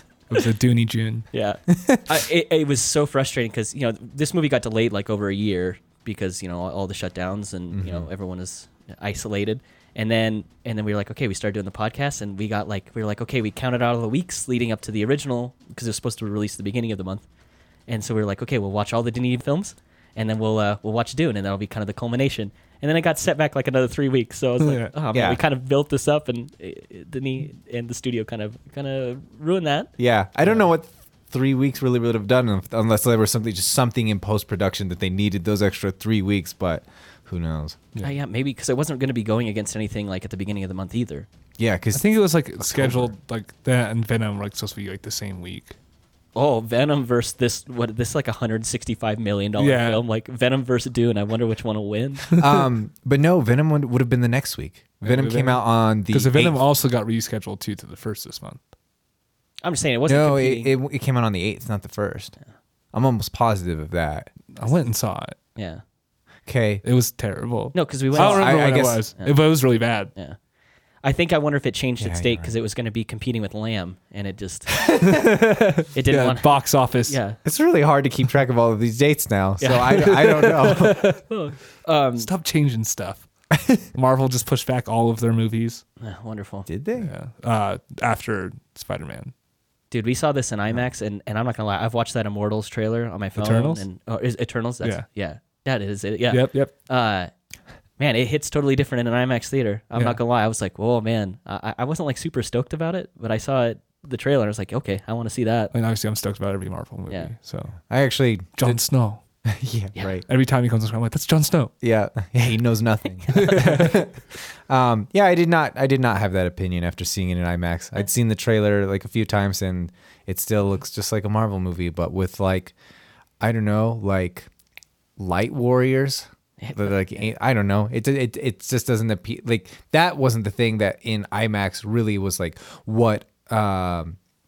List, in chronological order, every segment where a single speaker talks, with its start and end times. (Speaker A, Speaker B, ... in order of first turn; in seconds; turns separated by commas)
Speaker A: 0.3-1.3, Speaker B: 1.3-17.2, Speaker C: 1.7-2.2, Speaker C: 7.7-8.1, Speaker B: 17.9-29.9, Speaker A: 24.6-24.9, Speaker C: 25.1-25.4, Speaker C: 30.0-37.8, Speaker B: 38.0-41.3, Speaker C: 41.6-43.1, Speaker A: 41.9-45.8, Speaker B: 46.4-52.4, Speaker A: 49.6-50.0, Speaker C: 52.3-56.6, Speaker A: 55.0-58.6, Speaker B: 59.6-60.7, Speaker C: 60.1-62.4, Speaker C: 62.9-64.3, Speaker A: 64.5-65.4, Speaker B: 65.5-65.8, Speaker C: 66.5-66.8, Speaker A: 66.8-70.1, Speaker B: 67.7-69.4, Speaker C: 68.1-69.0, Speaker B: 71.0-74.8, Speaker C: 72.0-72.5, Speaker A: 75.0-77.2, Speaker B: 75.9-77.4, Speaker C: 77.4-81.1, Speaker B: 79.6-80.0, Speaker A: 79.7-81.2, Speaker B: 81.3-82.3, Speaker A: 82.2-83.3, Speaker A: 83.9-85.8, Speaker B: 86.0-86.7, Speaker C: 86.7-87.1, Speaker A: 87.0-89.3, Speaker B: 89.9-97.3, Speaker A: 93.4-93.8, Speaker A: 96.3-96.7, Speaker B: 98.0-105.7, Speaker A: 105.7-107.8, Speaker C: 107.8-108.8, Speaker A: 108.6-109.2, Speaker C: 109.5-110.2, Speaker A: 110.3-111.7, Speaker C: 111.8-122.8, Speaker B: 113.3-113.7, Speaker A: 113.3-114.0, Speaker C: 123.4-124.5, Speaker C: 125.2-134.2, Speaker B: 126.6-127.0